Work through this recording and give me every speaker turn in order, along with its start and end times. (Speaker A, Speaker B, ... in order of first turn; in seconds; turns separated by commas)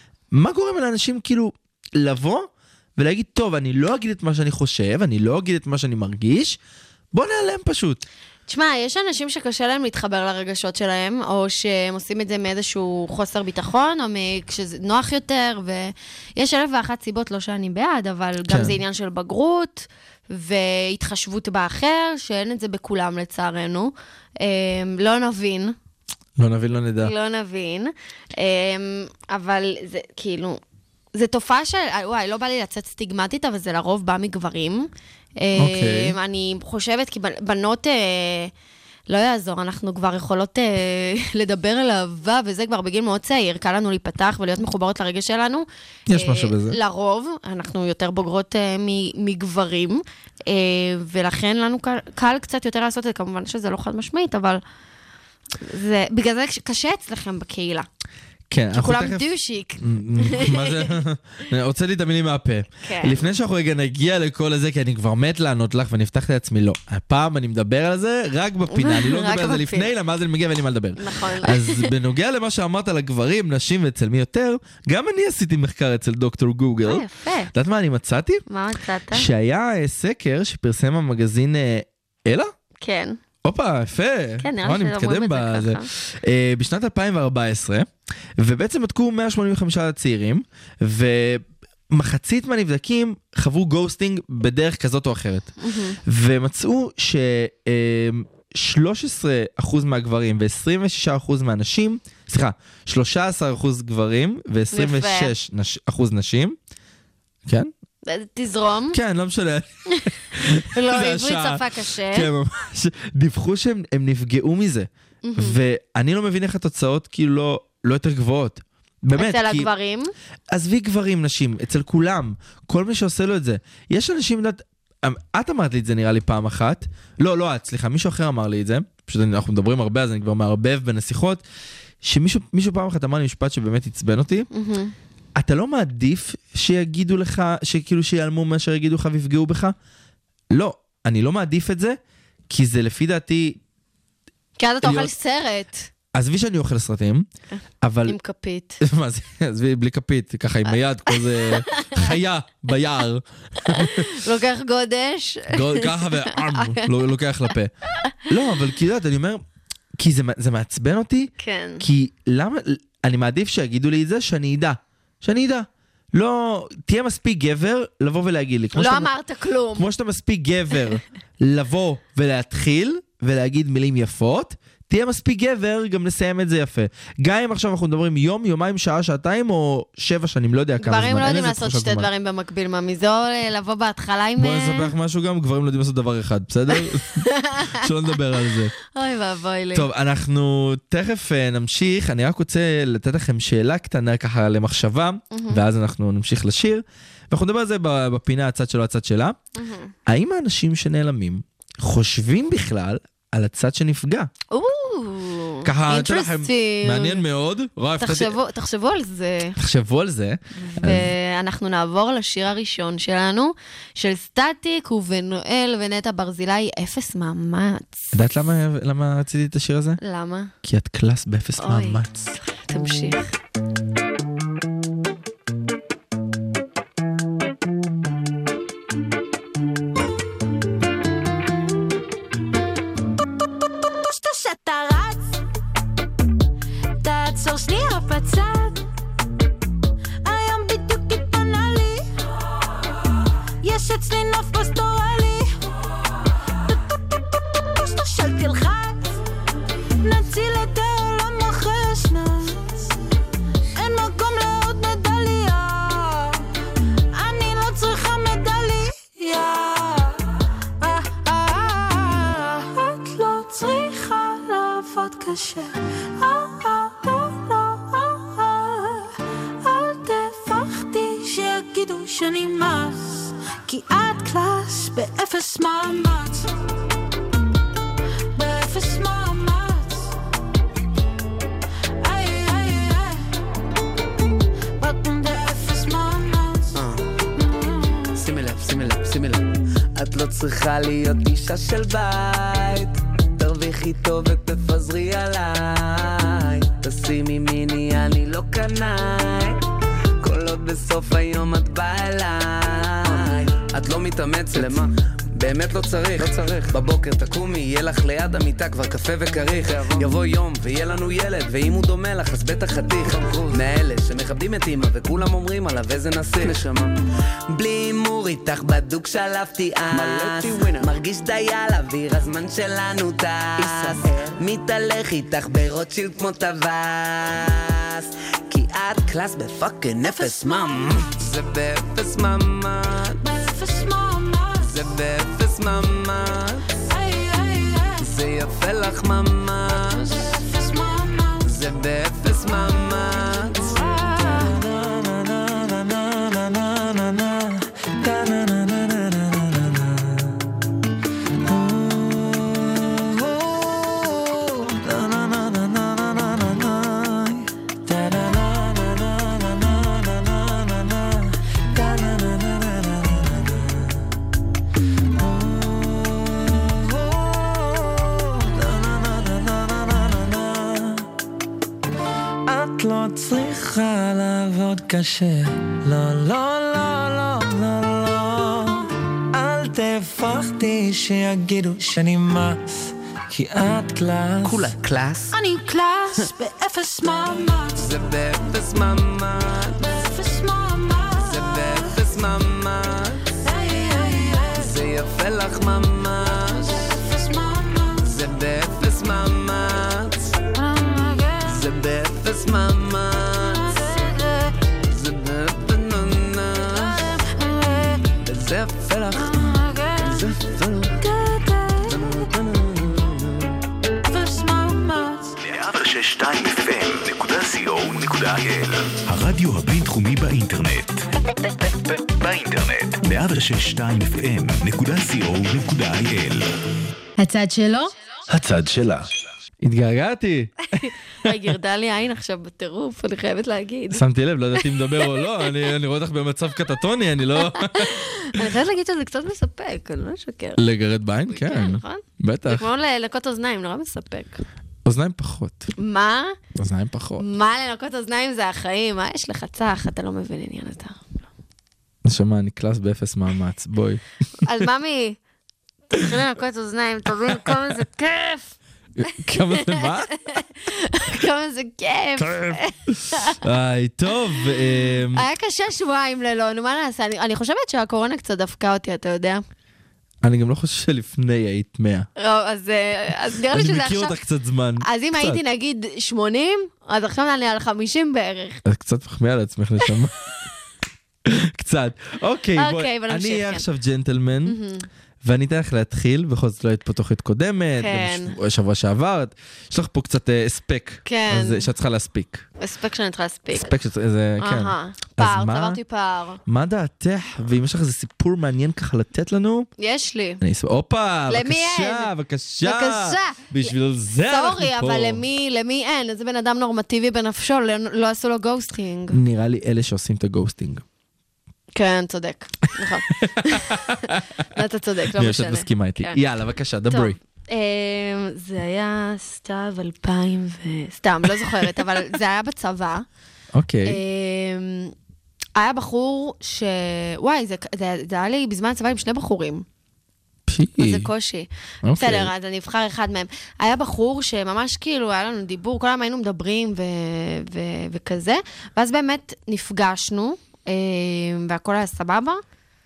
Speaker A: 0.3-6.6, Speaker A: 7.1-8.0, Speaker B: 8.5-25.8, Speaker A: 18.5-18.8, Speaker A: 26.4-27.1, Speaker B: 27.0-30.6, Speaker B: 31.1-38.5, Speaker A: 35.6-36.2, Speaker B: 39.1-54.6, Speaker A: 46.1-46.8, Speaker B: 55.6-57.9, Speaker A: 58.5-59.2, Speaker B: 58.7-60.9, Speaker A: 59.8-78.4, Speaker B: 62.8-63.2, Speaker B: 68.7-69.9, Speaker B: 71.0-71.9, Speaker B: 76.8-77.5, Speaker B: 78.5-79.3, Speaker A: 79.1-82.5, Speaker B: 82.8-83.2, Speaker A: 83.4-95.5, Speaker B: 84.4-85.9, Speaker B: 95.6-96.0, Speaker A: 96.0-106.6, Speaker B: 104.7-105.3, Speaker A: 107.5-107.7, Speaker B: 108.1-109.0, Speaker A: 108.9-119.7, Speaker B: 110.7-112.3, Speaker B: 115.2-115.6, Speaker B: 119.2-120.1, Speaker A: 120.5-131.4, Speaker A: 132.0-134.5, Speaker B: 134.5-134.9, Speaker A: 135.4-139.8, Speaker A: 140.5-142.0, Speaker A: 142.5-143.6, Speaker B: 144.6-145.9, Speaker A: 144.8-145.1, Speaker A: 146.1-147.3, Speaker A: 147.8-148.2, Speaker B: 148.1-148.8, Speaker A: 148.8-154.2, Speaker B: 151.1-152.0, Speaker B: 153.7-156.9, Speaker A: 155.5-157.7, Speaker A: 158.2-159.4, Speaker A: 160.0-169.1, Speaker B: 161.4-161.8, Speaker B: 168.8-169.9, Speaker A: 169.8-182.1, Speaker B: 180.8-184.9, Speaker A: 184.4-188.7, Speaker B: 186.7-187.8, Speaker B: 188.9-189.9, Speaker A: 189.7-199.4, Speaker B: 195.3-195.6, Speaker B: 199.6-199.9, Speaker A: 200.1-204.3, Speaker B: 204.5-207.2, Speaker A: 205.7-208.3, Speaker B: 208.0-209.6, Speaker A: 209.6-211.1, Speaker B: 210.6-218.2, Speaker A: 218.1-220.0, Speaker B: 220.0-220.5, Speaker A: 220.6-222.3, Speaker B: 221.6-223.3, Speaker C: 233.9-235.4, Speaker C: 237.0-238.8, Speaker C: 240.2-242.1, Speaker C: 243.6-245.6, Speaker C: 246.7-249.2, Speaker C: 250.0-252.9, Speaker C: 253.8-256.5, Speaker C: 257.1-260.2, Speaker C: 260.8-276.5, Speaker C: 278.4-280.2, Speaker C: 282.0-283.3, Speaker C: 284.8-286.8, Speaker D: 286.7-287.1, Speaker C: 287.4-288.1, Speaker D: 288.1-299.6, Speaker D: 300.2-316.9, Speaker D: 317.5-333.2, Speaker C: 330.1-331.1, Speaker C: 333.2-334.8, Speaker D: 334.6-336.7, Speaker C: 336.9-338.1, Speaker D: 338.0-340.3, Speaker C: 340.2-341.5, Speaker D: 341.5-343.9, Speaker C: 343.7-344.5, Speaker E: 344.2-350.5, Speaker E: 351.4-364.0, Speaker E: 365.1-371.1, Speaker E: 372.5-384.7, Speaker D: 384.4-385.4, Speaker C: 385.3-387.9, Speaker D: 387.8-389.9, Speaker C: 389.8-391.9, Speaker D: 391.2-393.2, Speaker C: 393.4-394.7, Speaker D: 394.6-396.9, Speaker C: 396.7-398.1, Speaker D: 398.1-400.4, Speaker C: 400.6-401.6, Speaker D: 401.4-403.9, Speaker C: 403.4-404.5, Speaker D: 404.8-407.1, Speaker C: 406.8-408.1, Speaker D: 408.2-411.0, Speaker C: 409.2-410.2, Speaker C: 411.0-412.3, Speaker D: 411.9-413.5, Speaker C: 414.1-415.4, Speaker F: 415.4-421.1, Speaker F: 421.6-426.5, Speaker B: 427.2-427.9, Speaker F: 428.3-429.0, Speaker A: 429.6-431.3, Speaker B: 430.8-434.0, Speaker A: 433.9-438.4, Speaker B: 434.6-435.2, Speaker B: 437.4-440.6, Speaker A: 440.6-442.7, Speaker B: 441.3-444.4, Speaker A: 444.9-445.7, Speaker B: 445.8-446.4, Speaker A: 446.6-447.2, Speaker B: 447.2-451.0, Speaker A: 452.1-454.0, Speaker B: 454.4-455.2, Speaker B: 455.9-458.6, Speaker A: 459.0-460.2, Speaker B: 459.5-463.4, Speaker A: 462.2-462.6, Speaker A: 463.1-465.2, Speaker B: 465.1-469.4, Speaker A: 470.2-472.1, Speaker B: 472.2-474.2, Speaker A: 473.5-475.4, Speaker B: 474.8-478.6, Speaker A: 478.6-480.1, Speaker A: 481.2-484.6, Speaker B: 482.6-483.6, Speaker B: 484.5-484.9, Speaker A: 485.2-492.5, Speaker B: 487.8-488.4, Speaker B: 491.1-491.7, Speaker B: 492.6-493.7, Speaker A: 493.5-495.8, Speaker B: 494.4-496.4, Speaker A: 496.5-499.7, Speaker B: 499.8-500.4, Speaker A: 500.4-505.2, Speaker B: 501.3-503.7, Speaker B: 504.3-509.2, Speaker A: 509.1-510.9, Speaker B: 511.7-513.9, Speaker A: 513.1-514.2, Speaker B: 514.5-516.2, Speaker A: 515.2-517.2, Speaker B: 516.9-523.1, Speaker A: 523.5-524.0, Speaker B: 523.9-524.9, Speaker B: 525.6-529.6, Speaker A: 530.5-531.1, Speaker B: 530.8-542.4, Speaker A: 531.8-532.3